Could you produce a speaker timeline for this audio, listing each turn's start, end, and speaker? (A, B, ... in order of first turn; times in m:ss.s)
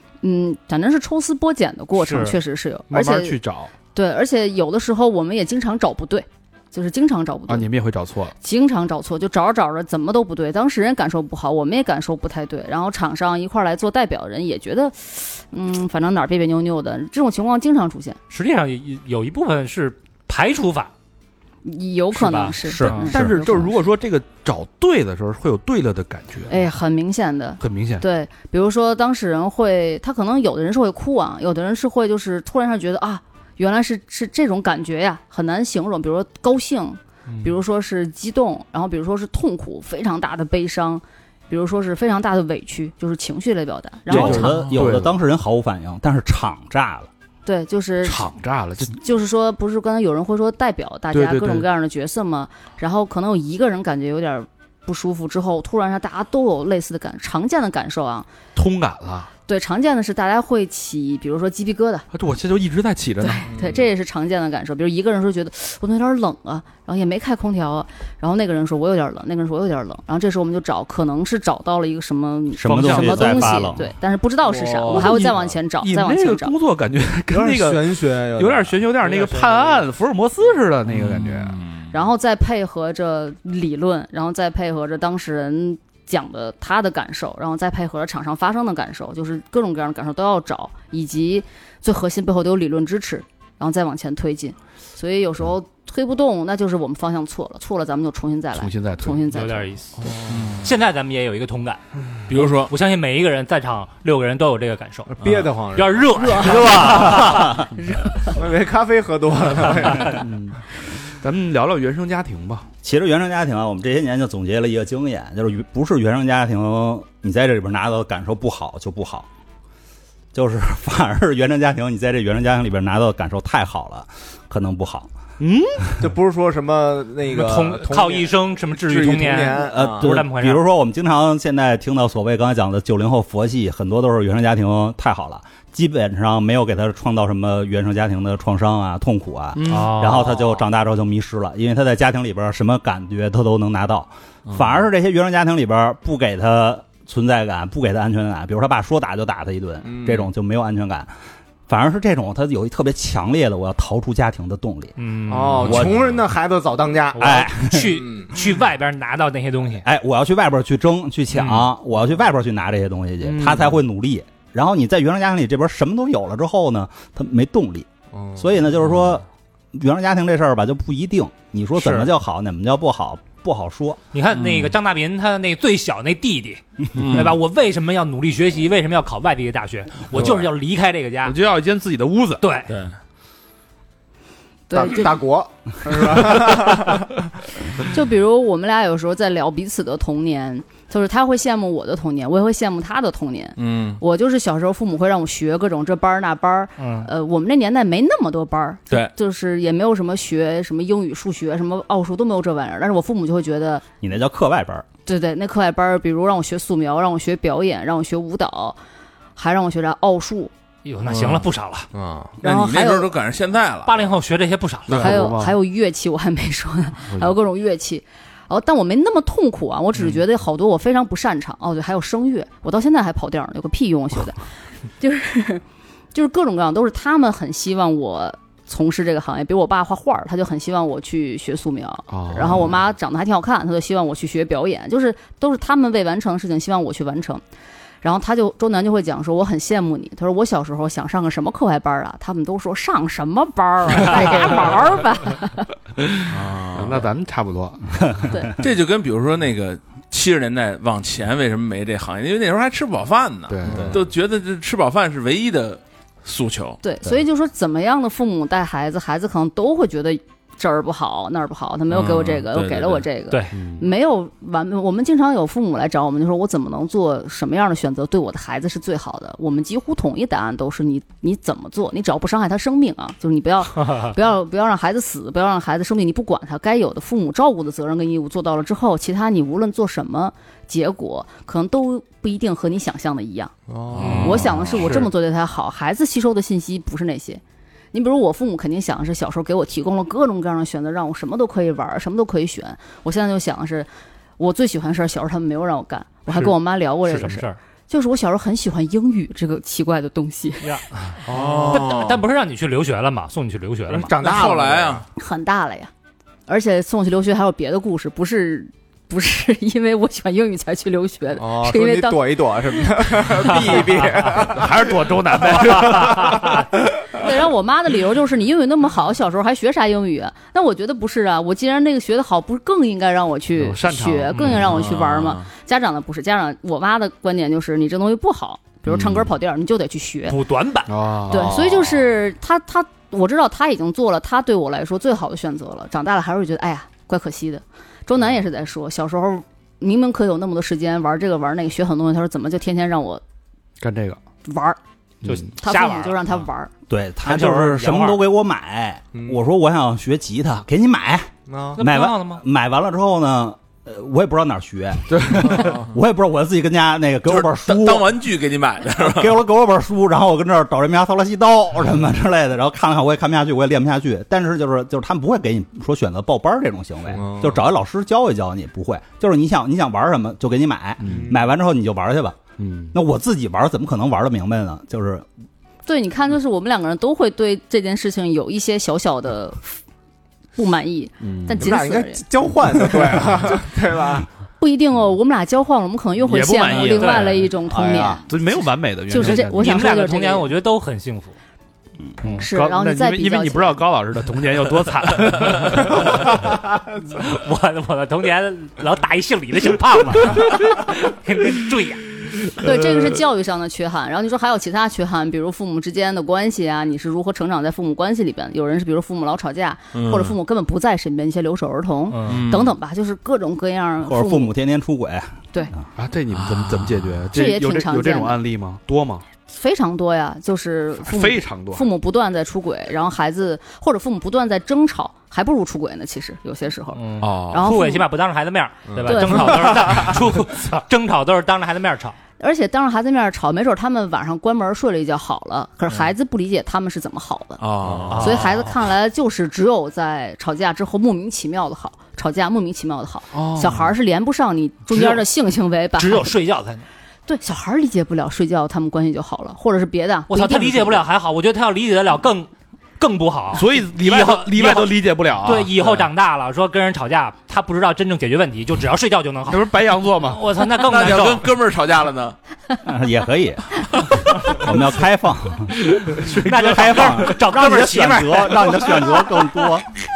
0:00.2-0:03.4 A
0:02.0-0:02.4 B
0:02.9-0:03.7 C
0:03.9-0:07.7 A
0:07.5-0:08.3 C
0:08.4-0:18.2 A
0:18.3-0:20.9 B
0:21.6-0:23.8 A
0:22.1-0:23.1 B
0:22.6-0:23.1 D
0:22.8-0:26.6 C
0:26.5-0:44.5 A
0:27.6-0:28.0 C
0:37.3-0:37.6 B
0:44.1-0:47.1 D
0:44.1-0:45.1 C
0:47.4-0:48.3 A
0:48.0-0:49.0 C
0:48.9-0:58.3 A
0:51.1-0:51.7 C
0:58.5-0:59.3 C
0:59.5-1:02.0 A
1:02.1-1:03.5 C
1:03.2-1:16.5 A
1:03.5-1:03.8 E
1:12.6-1:13.8 D
1:12.6-1:13.6 C
1:14.4-1:15.5 E
1:14.9-1:21.6 C
1:17.3-1:18.8 E
1:19.0-1:19.8 B
1:20.9-1:21.9 F
1:21.9-1:39.7 A
1:38.5-1:39.2 C
1:39.3-1:45.1 B
1:40.3-1:40.7 F
1:42.3-1:42.7 F
1:45.1-1:46.8 E
1:45.2-1:45.5 F
1:45.7-1:47.7 B
1:46.2-1:48.4 A
1:46.8-1:47.7 D
1:48.3-1:50.3 E
1:50.2-1:50.6 C
1:51.2-1:52.7 C
1:52.8-1:59.3 D
2:00.3-2:05.1 D
2:05.4-2:05.9 C
2:06.0-2:10.1 E
2:07.3-2:10.6 B
2:09.7-2:31.1 D
2:19.6-2:20.2 C
2:19.6-2:20.4 B
2:24.5-2:24.7 F
2:29.8-2:30.3 E
2:31.7-2:35.0 D
2:35.0-2:35.9 B
2:35.3-2:37.3 E
2:35.6-2:36.0 D
2:37.1-2:39.8 B
2:37.2-2:38.0 D
2:39.8-2:54.0 D
2:43.2-2:43.8 C
2:48.2-2:48.5 E
2:54.1-3:01.4 B
2:54.3-2:54.7 F
2:57.0-2:57.4 F
3:01.2-3:02.4 C
3:02.4-3:02.7 B
3:02.7-3:03.0 F
3:04.7-3:05.2 A
3:04.7-3:07.2 E
3:07.8-3:23.8 A
3:13.6-3:14.0 F
3:16.8-3:17.1 B
3:24.0-3:24.8 D
3:25.0-3:28.8 A
3:29.4-3:30.5 A
3:30.8-3:31.9 B
3:31.0-3:31.5 F
3:31.9-3:32.3 E
3:32.4-3:34.2 F
3:32.4-3:33.1 A
3:33.8-3:35.2 B
3:34.9-3:35.5 C
3:34.9-3:44.4 A
3:45.0-3:57.4 A
3:52.1-3:52.7 C
3:58.0-4:05.7 A
4:06.1-4:08.3 C
4:06.3-4:07.1 F
4:08.6-4:16.8 F
4:13.5-4:14.0 C
4:13.6-4:14.0 E
4:16.8-4:43.5 A
4:21.9-4:23.0 F
4:23.3-4:23.5 B
4:23.5-4:23.9 C
4:33.9-4:34.1 B
4:43.7-4:44.3 E
4:43.9-4:44.9 F
4:44.0-4:45.1 B
4:44.1-4:47.4 A
4:47.9-5:00.8 A
4:57.0-4:57.6 B
5:00.6-5:04.2 B
5:01.3-5:02.2 F
5:01.3-5:01.9 E
5:03.9-5:05.0 E
5:04.1-5:05.0 F
5:05.2-5:05.9 A
5:06.5-5:13.0 A
5:11.4-5:14.9 E
5:14.4-5:16.6 C
5:15.4-5:16.7 B
5:15.6-5:16.5 E
5:17.1-5:30.4 A
5:23.6-5:24.7 C
5:24.4-5:25.5 F
5:28.9-5:29.3 C
5:30.3-5:30.9 B
5:30.9-5:31.7 C
5:31.3-5:43.2 A
5:43.8-5:44.2 C
5:44.4-5:44.8 A
5:45.2-5:46.2 B
5:45.6-5:46.7 A
5:46.9-5:58.2 D
5:47.2-5:48.2 B
5:51.5-5:51.8 E
5:51.8-5:52.4 B
5:55.1-5:55.7 C
5:57.3-5:59.4 F
5:59.0-6:12.4 D
6:07.1-6:07.6 E
6:11.0-6:11.4 C
6:11.1-6:11.4 E
6:12.6-6:13.0 C
6:12.9-6:15.2 D
6:15.8-6:19.8 A
6:20.6-6:22.2 A
6:21.2-6:21.7 C
6:21.6-6:24.3 E
6:22.8-6:23.3 A
6:24.6-6:28.4 A
6:26.2-6:29.8 C
6:26.8-6:28.2 B
6:27.7-6:28.2 E
6:29.1-6:30.5 A
6:29.1-6:31.3 B
6:32.2-6:32.5 B
6:32.3-6:36.3 C
6:32.4-6:33.8 A
6:35.6-6:36.5 B
6:37.1-6:42.1 B
6:42.6-6:54.5 A
6:49.9-6:50.4 F
6:52.1-6:52.4 B
6:52.2-6:52.7 F
6:54.0-6:55.8 D
6:56.0-6:59.2 C
6:56.3-6:57.3 F
6:57.3-6:58.4 A
6:59.5-7:08.1 A
7:01.0-7:01.9 C
7:06.9-7:12.2 B
7:07.2-7:07.6 C
7:08.9-7:10.1 E
7:09.0-7:10.1 A
7:12.4-7:17.6 A
7:17.6-7:18.5 F
7:17.9-7:18.1 E
7:18.1-7:18.7 B
7:18.2-7:26.3 A
7:23.3-7:23.9 C
7:24.9-7:25.2 B
7:26.0-7:26.8 B
7:27.3-7:31.0 A
7:30.3-7:41.5 B
7:33.5-7:36.1 C
7:39.5-7:40.4 C
7:40.7-7:42.4 F
7:42.8-7:43.9 D
7:44.4-7:49.9 D
7:45.9-7:47.4 C
7:46.3-7:49.0 B